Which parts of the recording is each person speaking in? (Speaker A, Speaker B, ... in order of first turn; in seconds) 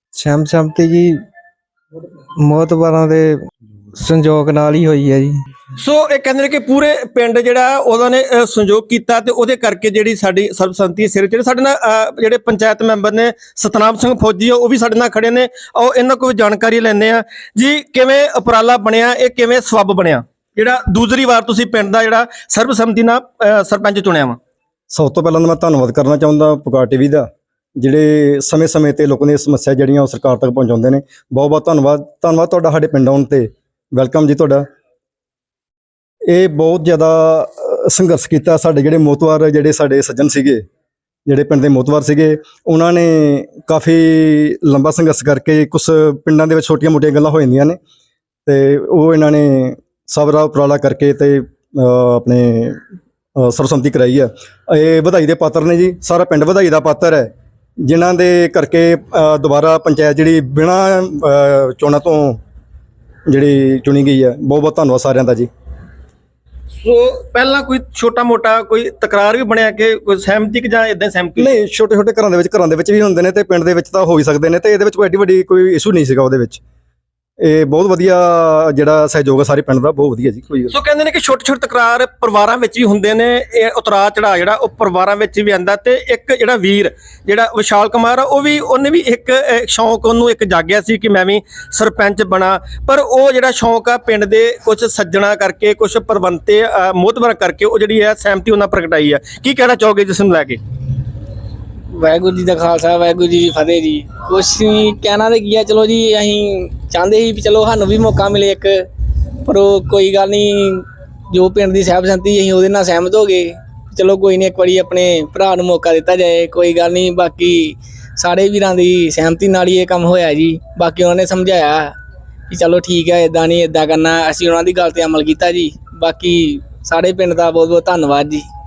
Speaker A: 0.1-1.2, 2.4-5.4
Speaker B: 5.8-24.4, 66.8-71.6, 80.7-100.6
Speaker C: 24.9-34.6, 36.3-40.6, 41.3-47.8, 48.5-52.8, 53.4-57.3, 57.8-62.4, 63.3-65.5, 71.4-76.6, 77.4-80.8
Speaker D: 101.9-108.9, 109.5-122.0, 122.5-128.5